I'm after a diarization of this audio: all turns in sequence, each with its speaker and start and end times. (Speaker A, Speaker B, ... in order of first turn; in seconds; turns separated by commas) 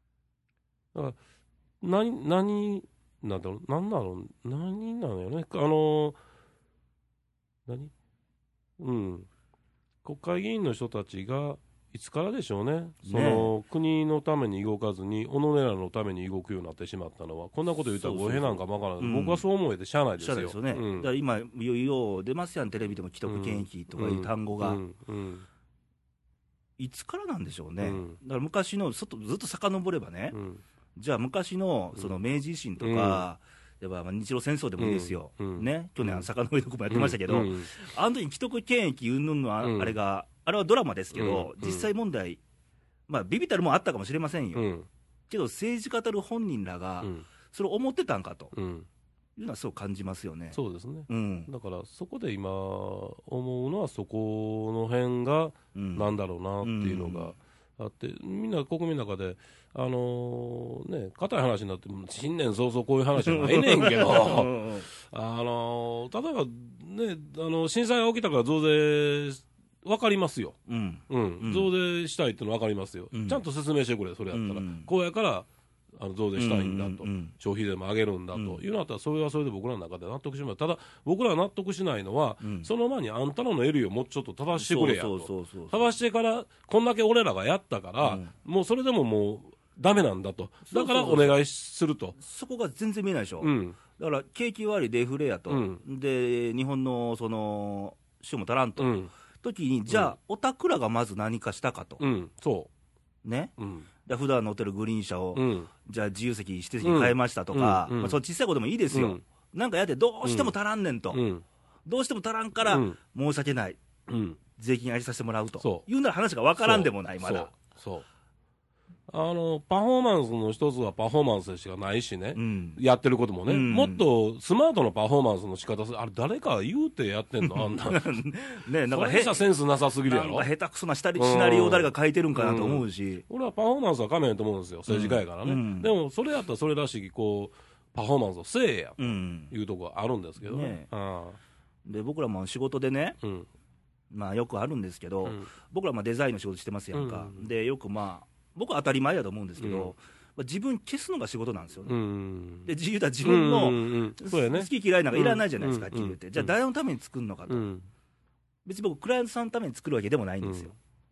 Speaker A: 0.9-1.2, Speaker A: 1.8-6.2, Speaker A: 7.7-7.9, Speaker A: 8.8-9.3, Speaker A: 10.0-21.1, Speaker B: 13.0-13.5, Speaker B: 18.0-19.4, Speaker B: 20.2-24.8, Speaker A: 23.2-25.4, Speaker B: 26.8-30.4, Speaker A: 27.8-28.1, Speaker A: 30.3-30.6, Speaker B: 30.9-42.4, Speaker A: 32.8-33.2, Speaker A: 34.8-36.3, Speaker A: 36.9-37.7, Speaker A: 39.6-40.0, Speaker A: 41.1-41.9, Speaker B: 43.1-44.7, Speaker A: 44.5-44.9, Speaker B: 45.3-48.5, Speaker A: 48.5-48.9, Speaker B: 49.4-51.5, Speaker A: 50.5-70.6, Speaker B: 55.7-56.1, Speaker B: 56.6-57.3, Speaker B: 63.2-64.9, Speaker B: 70.7-71.7, Speaker A: 71.1-92.2, Speaker B: 73.1-73.4, Speaker B: 74.3-74.9, Speaker B: 76.3-77.3, Speaker B: 78.3-78.6, Speaker B: 82.4-82.7, Speaker B: 84.5-85.9, Speaker B: 88.0-88.3, Speaker B: 90.7-91.4, Speaker B: 92.2-102.0, Speaker A: 93.4-93.8, Speaker A: 95.5-95.8, Speaker A: 98.8-99.1, Speaker A: 99.9-100.1, Speaker A: 102.0-102.7, Speaker B: 103.2-103.5, Speaker A: 103.6-103.9, Speaker B: 104.0-111.2, Speaker A: 105.3-105.7, Speaker A: 106.8-108.2, Speaker A: 108.9-109.2, Speaker A: 110.2-110.5, Speaker A: 111.1-111.4, Speaker B: 111.8-113.8, Speaker A: 112.7-113.0, Speaker A: 114.1-114.4, Speaker B: 114.5-117.5, Speaker A: 115.6-115.8, Speaker A: 116.6-118.0, Speaker A: 119.1-128.2, Speaker B: 122.3-122.8, Speaker B: 123.5-124.0, Speaker B: 127.4-129.4, Speaker A: 128.9-130.5, Speaker B: 130.0-133.2, Speaker A: 131.2-141.4, Speaker B: 134.9-135.9, Speaker B: 139.0-139.5, Speaker B: 140.4-140.9, Speaker B: 141.8-143.2, Speaker A: 143.2-143.5, Speaker B: 144.1-152.0, Speaker A: 146.9-147.5, Speaker A: 149.6-149.9, Speaker A: 151.8-152.7, Speaker B: 152.6-157.7, Speaker A: 153.2-156.5, Speaker A: 157.5-157.8, Speaker B: 158.6-160.7, Speaker A: 160.4-160.7